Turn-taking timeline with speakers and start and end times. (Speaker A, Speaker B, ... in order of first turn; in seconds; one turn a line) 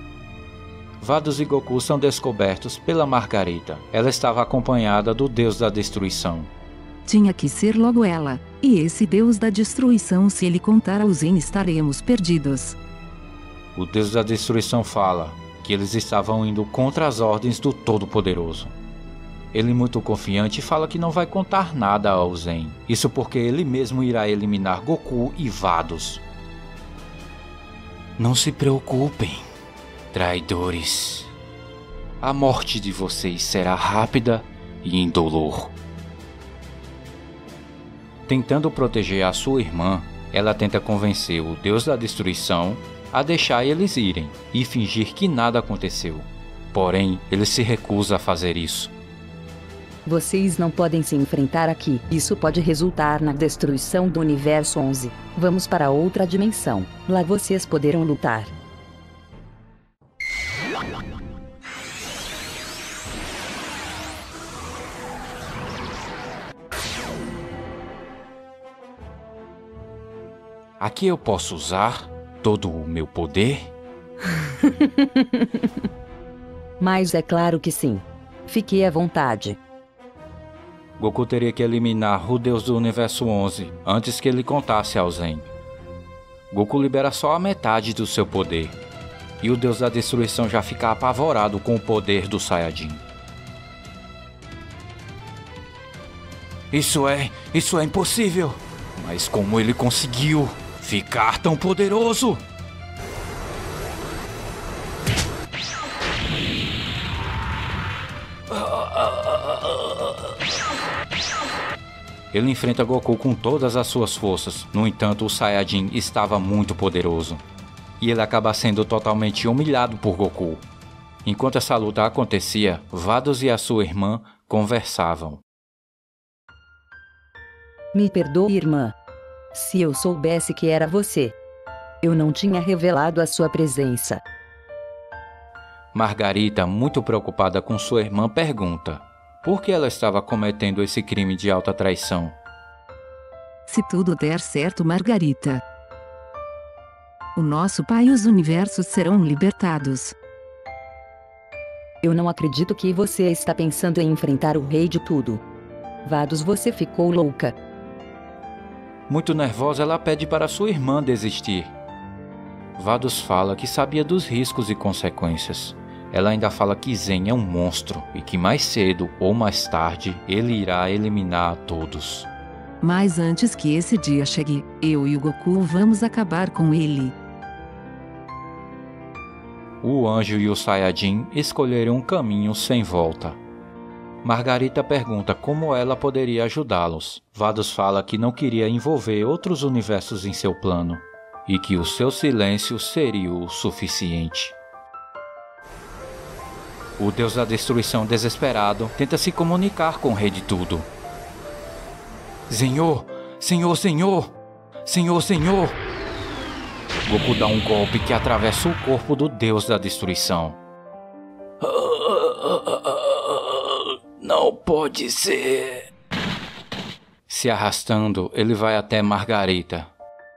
Speaker A: 1.0-6.5
Speaker B: 7.1-12.8
Speaker A: 13.8-18.8
Speaker A: 19.5-26.2
Speaker A: 28.2-29.5
Speaker A: 30.1-31.3
Speaker A: 32.2-35.7
Speaker A: 38.3-48.9
Speaker C: 50.1-58.5
Speaker A: 70.8-73.7
Speaker C: 74.6-75.5
Speaker C: 76.8-79.6
Speaker A: 81.0-85.5
Speaker A: 86.5-88.8
Speaker A: 89.4-93.0
Speaker A: 96.7-102.4
Speaker A: 108.5-110.1
Speaker A: 112.3-117.4
Speaker A: 118.0-120.7
Speaker A: 121.2-125.4
Speaker C: 127.9-128.9
Speaker C: 129.5-131.3
Speaker C: 132.0-134.2
Speaker A: 135.9-142.4
Speaker B: 143.7-145.6
Speaker B: 147.4-150.2
Speaker C: 152.0-155.4
Speaker C: 156.1-157.5
Speaker A: 159.1-161.7
Speaker A: 162.8-172.3
Speaker B: 172.8-177.1
Speaker A: 179.8-183.4
Speaker A: 184.2-194.6
Speaker A: 197.0-200.9
Speaker A: 202.5-205.8
Speaker A: 207.1-210.6
Speaker A: 211.6-215.9
Speaker A: 217.3-219.9